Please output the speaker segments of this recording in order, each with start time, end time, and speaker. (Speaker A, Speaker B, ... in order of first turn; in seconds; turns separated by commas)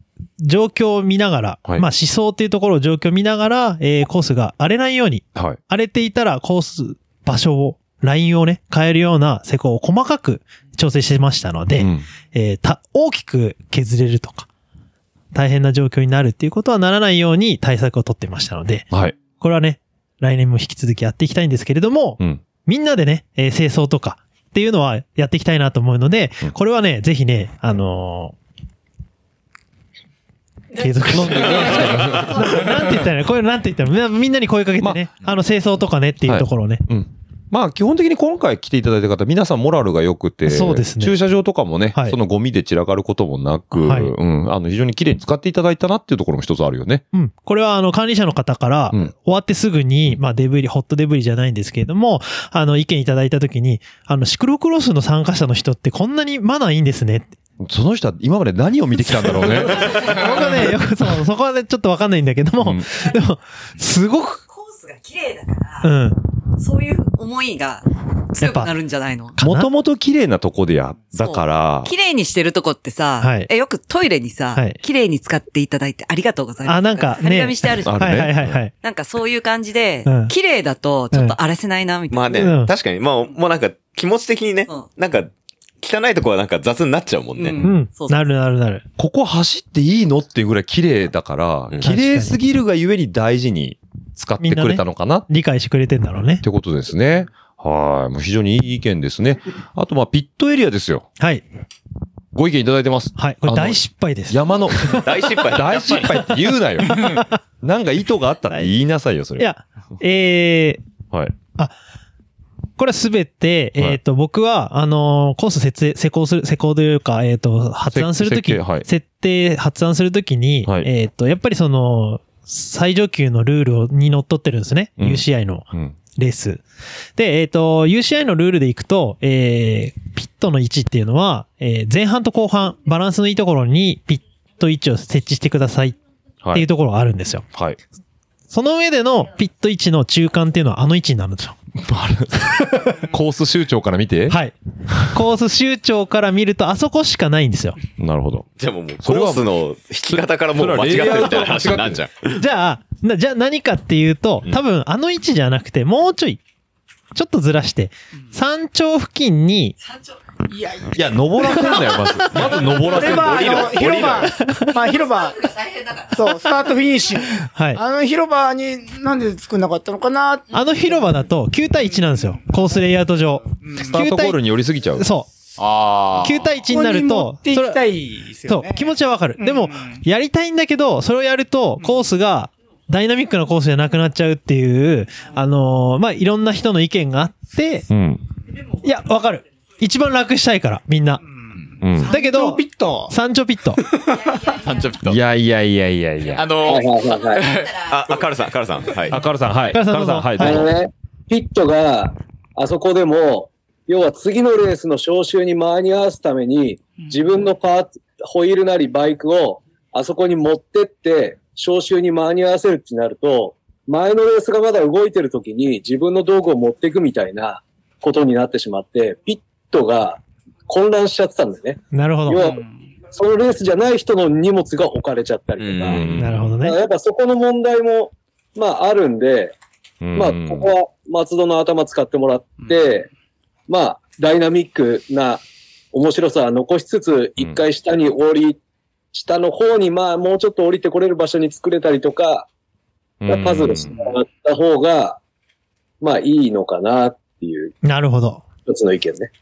Speaker A: 0.4-14.5, Speaker B: 11.8-12.1, Speaker A: 15.3-18.9, Speaker B: 18.9-19.2, Speaker A: 19.4-28.4, Speaker A: 30.8-36.8, Speaker B: 31.1-32.9, Speaker B: 36.2-47.0, Speaker A: 40.5-41.2, Speaker A: 43.7-44.1, Speaker A: 47.1-57.3, Speaker B: 57.6-60.2, Speaker A: 59.3-64.4, Speaker B: 62.6-62.9, Speaker C: 64.5-65.9, Speaker A: 65.8-66.2, Speaker C: 66.6-69.4, Speaker A: 68.4-68.7, Speaker A: 69.3-69.7, Speaker B: 69.4-71.9, Speaker C: 71.1-78.2, Speaker A: 73.2-73.5, Speaker A: 76.7-78.7, Speaker B: 77.8-78.6, Speaker C: 78.7-82.5, Speaker A: 80.1-80.3, Speaker D: 82.1-85.3, Speaker A: 82.3-82.7, Speaker D: 85.8-87.7, Speaker C: 87.4-88.2, Speaker A: 87.6-88.8, Speaker B: 89.0-95.3, Speaker A: 91.8-92.3, Speaker A: 94.4-96.4, Speaker B: 96.4-101.1, Speaker A: 101.2-101.4, Speaker B: 102.3-109.5, Speaker A: 103.2-105.0, Speaker D: 105.0-106.2, Speaker A: 109.4-110.8, Speaker A: 112.8-126.6, Speaker B: 117.9-118.9, Speaker B: 125.0-126.0, Speaker A: 127.2-136.0, Speaker A: 136.5-137.5, Speaker B: 137.5-137.8, Speaker A: 138.5-141.6, Speaker B: 141.8-144.4, Speaker A: 144.3-144.6, Speaker A: 145.1-147.8, Speaker B: 148.0-148.5, Speaker D: 148.6-152.4, Speaker B: 149.0-149.5, Speaker B: 150.1-152.0, Speaker A: 152.4-156.4, Speaker A: 157.1-159.8, Speaker E: 160.5-171.2, Speaker B: 160.9-164.2, Speaker D: 163.0-164.3, Speaker A: 164.4-164.8, Speaker A: 167.4-167.8, Speaker A: 170.5-174.4, Speaker E: 173.6-173.9, Speaker B: 173.8-175.1, Speaker A: 175.0-175.3, Speaker F: 175.6-176.6, Speaker A: 176.2-177.8, Speaker E: 176.7-180.0, Speaker A: 178.5-187.9, Speaker B: 187.9-188.2, Speaker A: 188.8-191.2, Speaker B: 191.8-192.1, Speaker E: 191.9-193.1, Speaker A: 192.1-193.8, Speaker F: 194.5-195.2, Speaker B: 195.1-196.5, Speaker F: 196.3-197.9, Speaker G: 196.6-197.5, Speaker D: 197.8-199.2, Speaker B: 199.1-200.7, Speaker A: 199.7-200.6, Speaker G: 200.4-222.6, Speaker A: 221.9-222.4, Speaker E: 222.4-222.7, Speaker G: 223.1-226.1, Speaker D: 225.6-226.2, Speaker B: 225.9-226.6, Speaker A: 226.2-226.8, Speaker G: 226.6-229.5, Speaker B: 230.0-230.7, Speaker G: 230.2-233.1, Speaker G: 233.7-238.6, Speaker G: 239.1-242.5, Speaker B: 243.2-243.9, Speaker G: 243.3-245.2, Speaker G: 246.0-247.8, Speaker A: 247.8-248.4, Speaker G: 248.7-249.3